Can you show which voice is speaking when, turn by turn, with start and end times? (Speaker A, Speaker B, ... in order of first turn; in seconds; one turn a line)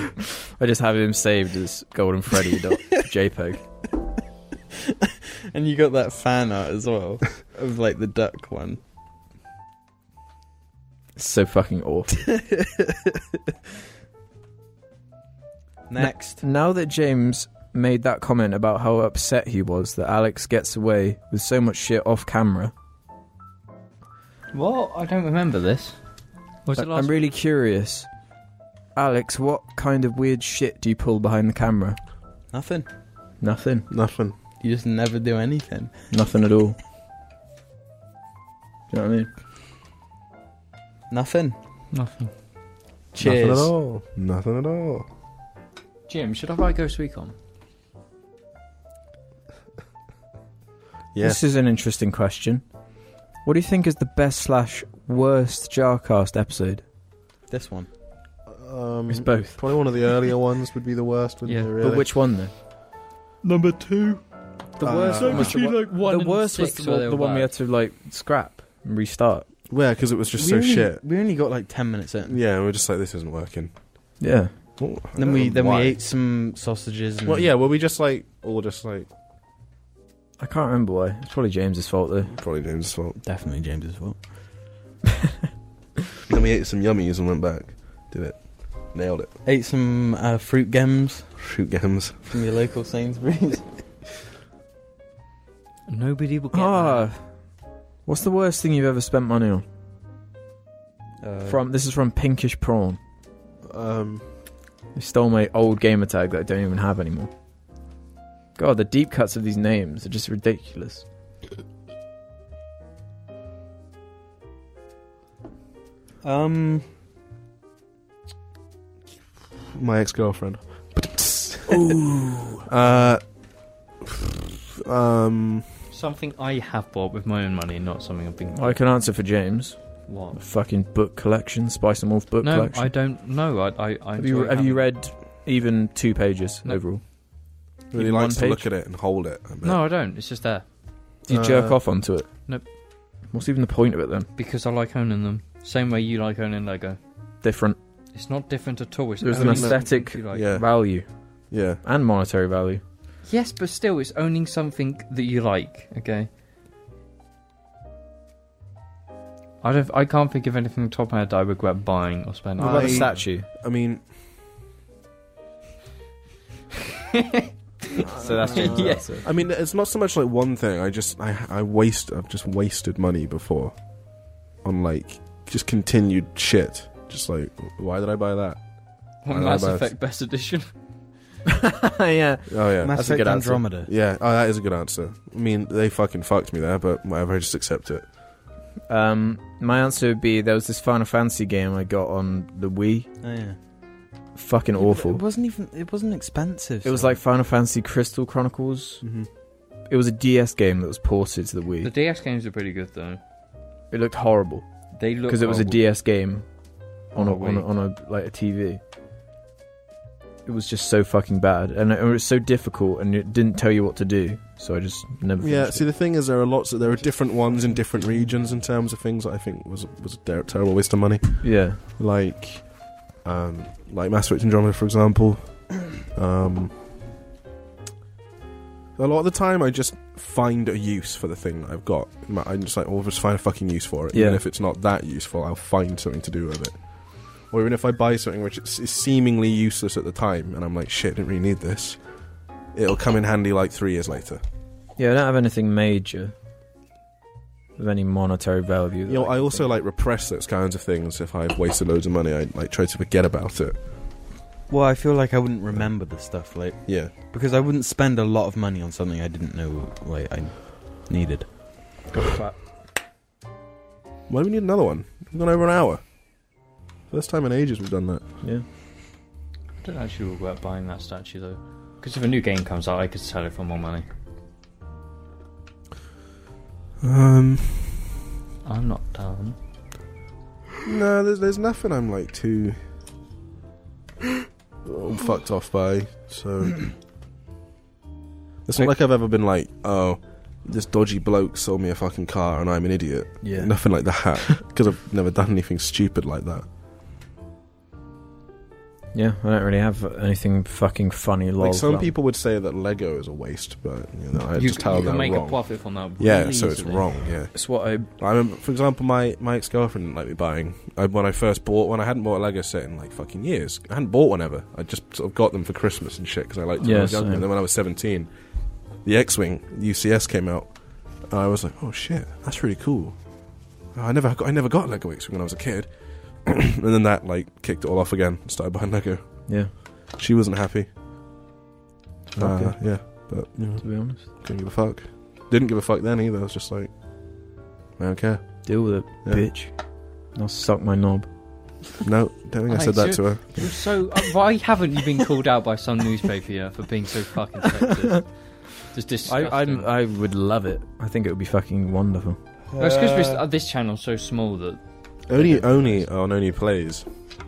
Speaker A: 0.6-3.6
Speaker B: 4.8-8.8
Speaker A: 11.2-12.3
Speaker B: 12.3-13.1
Speaker B: 15.9-16.4
Speaker A: 16.0-22.7
Speaker C: 24.5-25.9
Speaker C: 26.6-27.3
Speaker A: 26.7-28.1
Speaker A: 28.9-32.0
Speaker B: 32.5-32.9
Speaker A: 33.4-33.9
Speaker D: 33.9-34.4
Speaker B: 34.6-36.0
Speaker A: 36.1-36.8
Speaker A: 38.9-39.3
Speaker B: 41.1-41.6
Speaker C: 41.9-42.3
Speaker B: 43.1-43.7
Speaker D: 43.2-45.1
Speaker C: 46.1-47.3
Speaker D: 51.1-51.4
Speaker A: 51.2-52.6
Speaker A: 53.4-56.8
Speaker B: 57.5-57.9
Speaker D: 58.5-62.1
Speaker A: 59.1-59.6
Speaker C: 61.4-61.7
Speaker A: 61.8-62.5
Speaker C: 63.4-64.2
Speaker D: 64.8-65.6
Speaker B: 64.8-65.2
Speaker A: 64.8-69.5
Speaker C: 64.9-67.5
Speaker D: 69.7-71.0
Speaker B: 70.3-72.4
Speaker D: 72.3-73.7
Speaker A: 74.2-74.5
Speaker D: 74.8-76.0
Speaker B: 75.2-77.5
Speaker D: 77.2-79.1
Speaker A: 80.4-82.3
Speaker D: 82.3-83.2
Speaker B: 83.2-84.2
Speaker D: 86.3-89.3
Speaker B: 89.4-91.3
Speaker D: 91.4-92.3
Speaker B: 92.3-93.8
Speaker C: 95.9-97.1
Speaker A: 96.5-97.2
Speaker A: 98.0-99.6
Speaker B: 101.2-101.6
Speaker A: 101.5-103.0
Speaker D: 103.6-104.2
Speaker A: 105.0-107.3
Speaker A: 108.6-111.0
Speaker B: 116.2-116.9
Speaker D: 119.7-123.2
Speaker D: 124.0-125.7
Speaker C: 125.9-128.8
Speaker A: 128.5-132.9
Speaker C: 130.1-130.4
Speaker C: 132.4-134.9
Speaker A: 134.2-137.0
Speaker A: 137.9-138.7
Speaker D: 137.9-139.8
Speaker C: 139.6-140.6
Speaker A: 141.3-142.3
Speaker D: 141.3-141.8
Speaker A: 143.3-144.3
Speaker C: 144.3-147.0
Speaker A: 147.4-147.8
Speaker C: 148.1-150.5
Speaker A: 149.2-151.1
Speaker D: 149.3-150.7
Speaker D: 151.5-151.8
Speaker A: 151.8-152.8
Speaker C: 153.2-156.3
Speaker C: 159.6-163.2
Speaker A: 162.6-163.5
Speaker D: 162.6-164.0
Speaker C: 167.1-169.2
Speaker A: 167.9-169.2
Speaker D: 169.2-173.7
Speaker D: 174.6-178.7
Speaker C: 179.2-180.7
Speaker D: 179.3-179.9
Speaker A: 181.5-183.6
Speaker D: 182.5-183.0
Speaker B: 182.8-183.9
Speaker D: 183.8-188.1
Speaker A: 188.9-193.1
Speaker B: 193.2-193.6
Speaker A: 194.3-195.2
Speaker B: 194.8-197.2
Speaker A: 196.8-199.0
Speaker D: 199.0-199.3
Speaker A: 199.9-201.9
Speaker C: 201.8-203.2
Speaker A: 203.9-204.7
Speaker C: 204.9-205.8
Speaker A: 205.2-206.4
Speaker A: 207.1-208.8
Speaker C: 207.1-207.7
Speaker A: 210.4-215.9
Speaker D: 215.4-226.7
Speaker A: 221.4-221.8
Speaker D: 229.0-236.8
Speaker A: 234.1-234.4
Speaker D: 237.5-242.0
Speaker D: 242.7-244.4
Speaker A: 245.0-246.3
Speaker A: 247.8-249.7
Speaker D: 249.1-253.8
Speaker B: 254.7-261.5
Speaker D: 256.9-257.1
Speaker A: 262.1-262.6
Speaker D: 264.3-266.0
Speaker D: 267.1-268.2
Speaker C: 269.8-274.0
Speaker D: 277.0-278.0
Speaker C: 278.6-279.6
Speaker D: 280.8-282.8
Speaker D: 284.8-286.9
Speaker D: 288.6-296.6
Speaker A: 293.4-293.7
Speaker A: 299.1-302.1
Speaker D: 301.6-305.6
Speaker C: 304.6-307.1
Speaker D: 306.2-307.6
Speaker A: 307.5-308.1
Speaker D: 308.2-318.3
Speaker A: 316.8-317.4
Speaker D: 319.0-323.2
Speaker D: 323.9-329.5
Speaker D: 330.1-330.9
Speaker A: 332.3-334.3
Speaker D: 332.4-336.9
Speaker D: 338.0-339.4
Speaker A: 338.6-339.8
Speaker A: 340.3-341.3
Speaker D: 342.0-343.7
Speaker C: 342.7-349.9
Speaker A: 349.3-352.4
Speaker B: 352.7-353.4
Speaker C: 352.8-354.8
Speaker D: 355.3-357.1
Speaker C: 355.3-356.0